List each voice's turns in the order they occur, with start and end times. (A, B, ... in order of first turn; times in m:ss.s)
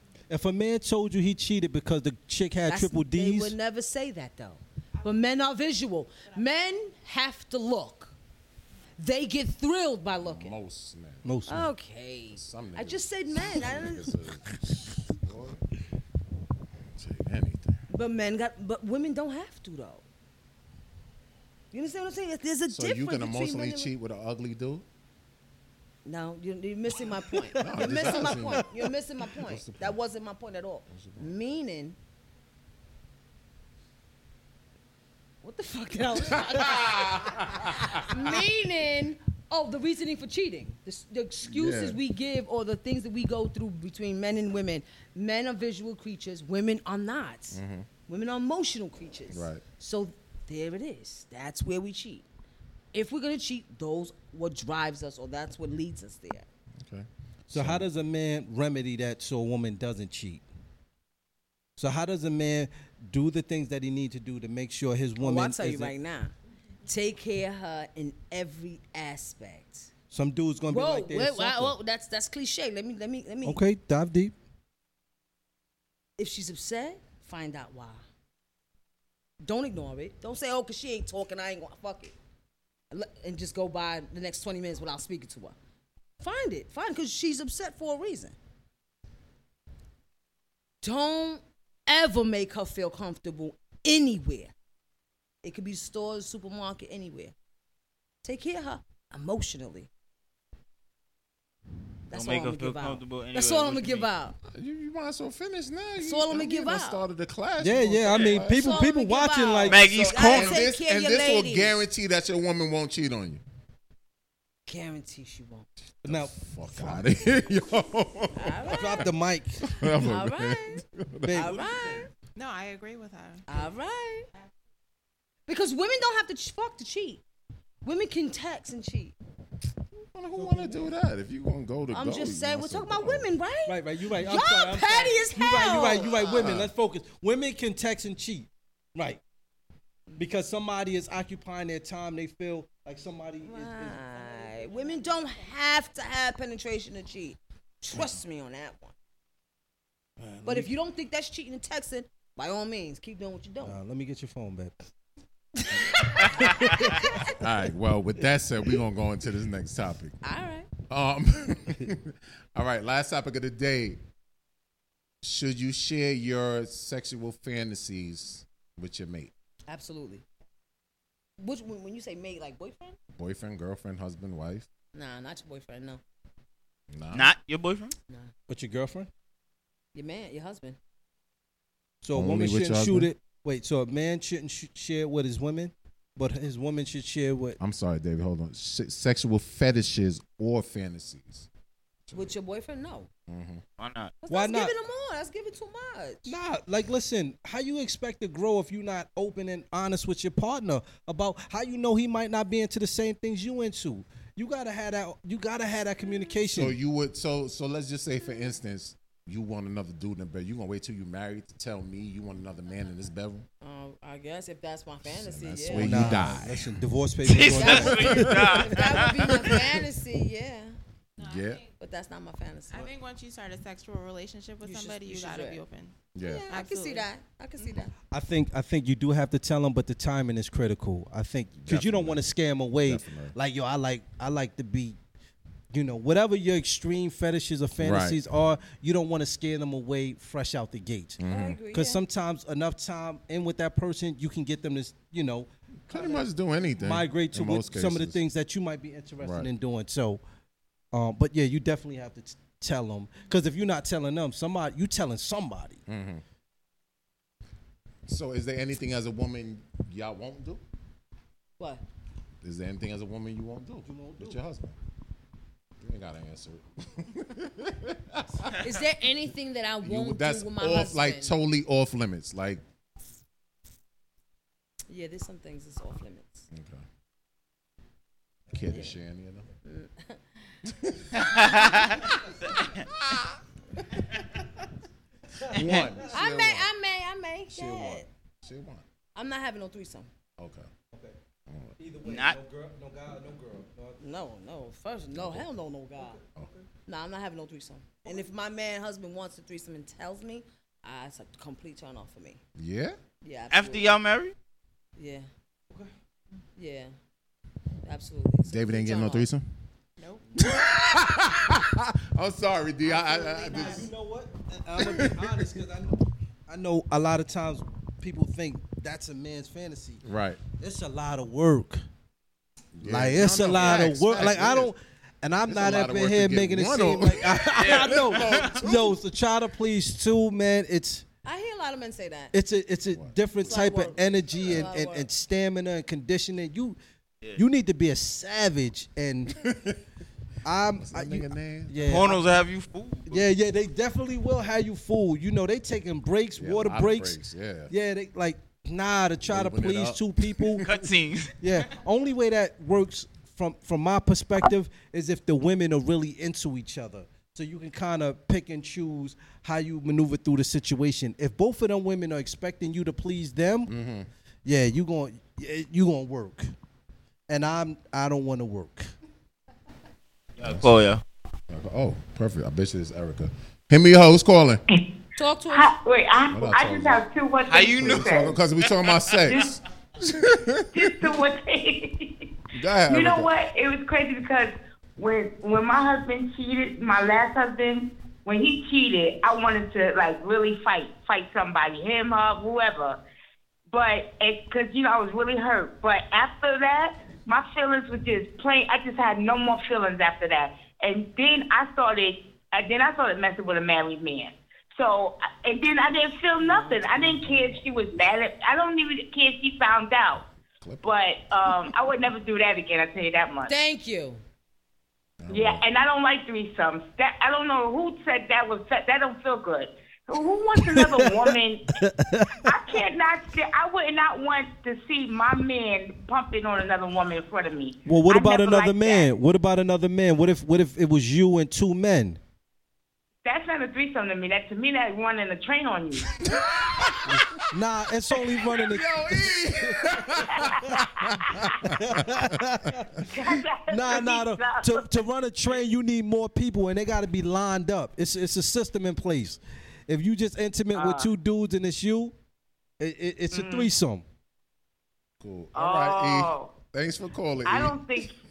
0:00.3-0:03.6 A
0:02.7-0:08.1 B
0:05.0-0:06.7 C
0:09.0-0:10.5 B
0:10.2-0:11.3 D
0:11.2-0:11.7 A
0:11.5-0:14.2 B
0:12.3-0:15.6 D
0:17.0-0:17.8 D
0:17.9-0:20.0 B
0:21.7-0:23.9 B
0:22.7-0:24.8 D
0:26.0-0:32.0 B
0:27.2-0:28.4 A
0:27.6-0:30.0 D
0:30.9-0:31.4 D
0:35.4-0:52.2 B
0:36.2-0:38.4 D
0:41.4-0:42.0 D
0:47.5-0:47.9 D
0:49.3-0:49.6 D
0:52.9-0:56.5 B
0:56.8-0:57.9 D
0:57.5-1:00.4 A
1:01.8-1:06.0 A
1:05.2-1:06.3 B
1:06.9-1:09.9 B
1:10.1-1:11.8 A
1:10.7-1:13.6 B
1:13.4-1:14.3 A
1:16.2-1:18.0 B
1:19.4-1:22.1 B
1:22.9-1:25.6 B
1:26.2-1:28.4 B
1:30.8-1:34.5 B
1:35.4-1:37.3 B
1:38.2-1:39.9 B
1:42.1-1:44.4 B
1:42.1-1:44.1 E
1:44.5-1:48.8 D
1:46.0-1:47.0 B
1:47.6-1:49.8 A
1:48.5-1:51.7 B
1:49.7-1:50.6 E
1:49.9-1:53.4 D
1:54.7-1:55.7 B
1:56.0-1:59.1 D
1:56.0-1:57.2 A
1:58.3-1:59.1 B
1:58.7-1:59.7 A
1:59.6-2:01.5 D
1:59.9-2:02.1 B
2:01.2-2:02.0 A
2:02.4-2:03.7 C
2:03.5-2:04.3 B
2:05.5-2:07.2 B
2:07.8-2:09.2 B
2:10.0-2:13.3 D
2:10.4-2:10.9 A
2:11.9-2:16.2 B
2:13.7-2:19.2 A
2:16.1-2:16.7 D
2:20.2-2:24.0 A
2:23.4-2:28.9 B
2:24.0-2:25.8 C
2:30.2-2:30.7 A
2:30.4-2:33.8 B
2:33.6-2:34.8 A
2:35.6-2:37.4 B
2:36.3-2:37.2 A
2:37.3-2:40.2 D
2:40.2-2:40.7 B
2:40.9-2:44.0 D
2:45.2-2:49.3 D
2:49.7-2:50.2 B
2:51.4-2:53.0 B
2:53.2-2:54.7 D
2:54.9-2:56.0 B
2:56.9-2:57.3 D
2:57.1-2:58.0 E
2:58.5-2:59.1 A
3:00.0-3:00.8 B
3:02.0-3:07.6 A
3:02.1-3:03.1 D
3:07.6-3:11.5 D
3:12.1-3:12.4 D
3:12.1-3:13.1 B
3:13.3-3:13.6 D
3:13.8-3:14.2 E
3:14.2-3:16.3 B
3:14.3-3:14.7 A
3:16.2-3:26.8 A
3:26.5-3:33.5 D
3:33.6-3:36.2 B
3:35.0-3:36.8 D
3:35.7-3:38.3 A
3:37.2-3:39.6 E
3:37.6-3:40.8 B
3:38.0-3:38.7 D
3:39.2-3:39.7 D
3:41.2-3:41.8 C
3:41.2-3:41.6 D
3:41.8-3:42.9 B
3:42.7-3:46.0 C
3:44.6-3:45.6 B
3:46.2-3:46.5 D
3:46.2-3:47.9 B
3:46.5-3:47.1 C
3:47.6-3:47.8 C
3:48.1-3:55.0 A
3:51.6-3:52.3 D
3:52.8-3:53.4 D
3:55.7-4:01.2 A
3:57.8-3:58.2 D
4:01.2-4:01.6 D
4:01.3-4:02.0 B
4:01.7-4:06.2 A
4:05.9-4:08.2 D
4:06.8-4:10.2 A
4:09.2-4:09.5 D
4:10.9-4:15.8 A
4:15.9-4:16.2 D
4:18.1-4:20.6 D
4:21.6-4:21.8 B
4:22.4-4:24.8 D
4:23.8-4:24.4 A
4:25.8-4:28.6 D
4:28.6-4:31.3 B
4:29.8-4:32.6 D
4:34.9-4:36.5 B
4:36.5-4:36.8 D
4:38.5-4:39.5 D
4:38.7-4:39.0 B
4:39.6-4:40.5 B
4:40.7-4:41.7 D
4:41.2-4:42.8 E
4:42.9-4:43.4 D
4:45.5-4:46.7 D
4:45.5-4:45.9 E
4:46.1-4:48.1 B
4:47.5-4:48.8 D
4:49.2-4:50.1 B
4:50.4-4:50.7 D
4:51.5-4:51.8 D
4:51.8-4:54.0 A
4:52.0-4:52.4 E
4:54.0-4:56.2 B
4:55.1-4:55.5 D
4:56.0-4:56.6 A
4:56.9-5:02.4 B
5:02.6-5:03.0 D
5:03.2-5:03.9 B
5:03.5-5:04.3 E
5:05.0-5:05.3 B
5:06.6-5:06.9 B
5:07.8-5:09.3 B
5:08.4-5:09.4 D
5:10.0-5:10.6 C
5:10.4-5:13.9 D
5:12.9-5:13.9 C
5:13.2-5:20.0 A
5:14.8-5:15.6 D
5:20.0-5:20.4 D
5:20.6-5:21.8 A
5:22.8-5:24.7 D
5:22.8-5:31.0 A
5:25.5-5:29.0 D
5:27.6-5:28.6 E
5:31.2-5:32.3 B
5:32.3-5:36.8 A
5:32.9-5:33.6 D
5:33.4-5:35.1 B
5:37.4-5:39.4 A
5:39.4-5:39.8 D
5:40.4-5:42.2 A
5:40.8-5:42.2 D
5:41.8-5:43.3 E
5:43.1-5:47.2 A
5:46.4-5:47.7 D
5:47.7-5:50.6 A
5:49.3-5:50.8 D
5:50.6-5:51.7 E
5:51.4-6:03.7 A
6:03.7-6:04.1 D
6:04.4-6:06.5 A
6:07.3-6:08.9 A
6:10.4-6:11.0 E
6:10.4-6:10.8 D
6:11.5-6:14.6 D
6:15.2-6:15.7 B
6:15.5-6:18.3 F
6:16.3-6:17.1 D
6:17.5-6:19.5 E
6:17.7-6:21.2 D
6:20.7-6:22.3 F
6:22.5-6:23.3 D
6:22.8-6:33.0 F
6:33.7-6:50.2 F
6:46.4-6:46.9 B
6:47.0-6:47.6 D
6:50.6-6:50.9 D
6:50.8-6:53.5 F
6:53.5-6:54.2 B
6:55.2-6:55.6 D
6:55.3-7:01.7 F
7:00.6-7:02.5 A
7:02.4-7:09.1 F
7:07.9-7:12.2 A
7:13.2-7:17.0 F
7:16.2-7:17.5 D
7:17.1-7:20.8 A
7:18.4-7:23.1 D
7:20.2-7:21.7 F
7:21.6-7:22.9 A
7:23.0-7:25.0 F
7:23.7-7:32.1 A
7:30.7-7:31.1 F
7:32.8-7:34.0 A
7:33.3-7:33.7 F
7:35.2-7:38.1 D
7:35.5-7:36.5 F
7:37.4-7:38.2 F